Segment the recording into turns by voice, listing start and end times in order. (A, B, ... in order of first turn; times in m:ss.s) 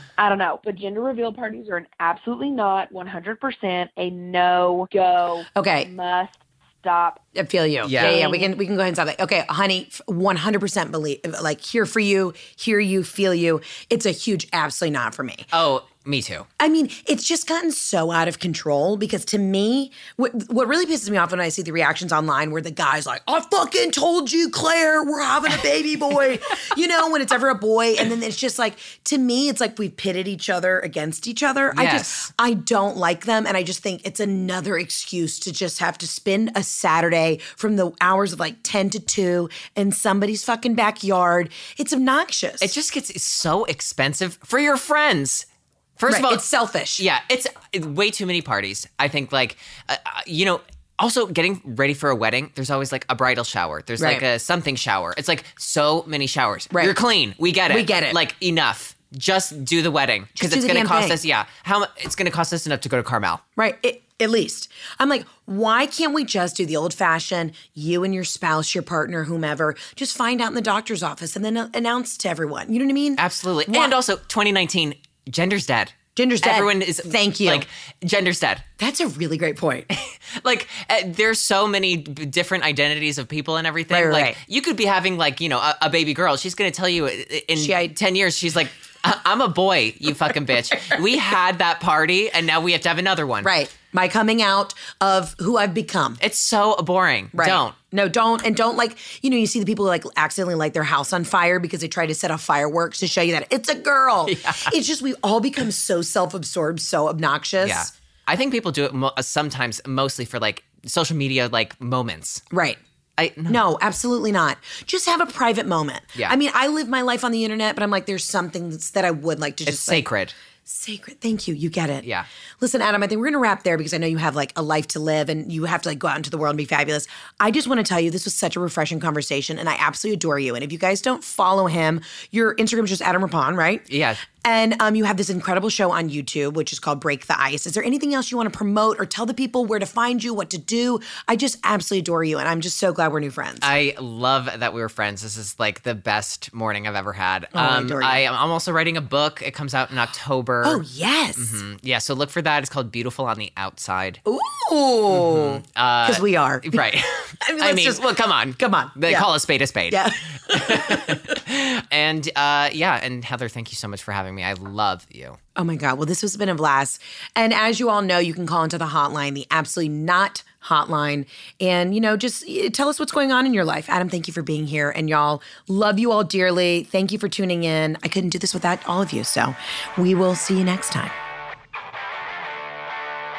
0:00.2-0:07.2 A
0:05.6-0:05.9 B
0:07.4-0:15.5 B
0:07.8-0:08.2 C
0:07.9-0:08.5 A
0:15.5-0:16.5 C
0:16.6-0:42.7 B
0:31.7-0:32.3 C
0:42.6-0:46.4 C
0:46.1-0:47.0 B
0:47.0-1:03.4 C
0:54.0-0:54.2 B
0:56.7-0:57.0 B
0:57.7-0:58.2 B
1:00.4-1:01.2 B
1:03.6-1:13.9 B
1:13.2-1:18.7 C
1:16.2-1:17.7 B
1:18.8-1:19.9 B
1:19.9-1:33.5 C
1:23.9-1:24.4 B
1:27.6-1:27.9 B
1:33.4-1:36.2 B
1:36.2-1:37.8 C
1:37.3-1:47.9 B
1:44.3-1:44.7 C
1:47.6-1:52.4 C
1:52.5-1:52.8 B
1:53.2-1:53.6 C
1:53.5-2:00.1 B
1:59.6-2:00.4 C
2:00.7-2:02.1 B
2:02.6-2:23.7 B
2:13.9-2:14.2 C
2:23.6-2:30.8 C
2:27.5-2:28.2 B
2:30.6-2:31.6 B
2:31.4-2:34.2 C
2:34.2-2:39.3 B
2:35.1-2:45.4 C
2:39.9-2:41.4 B
2:45.6-3:01.1 B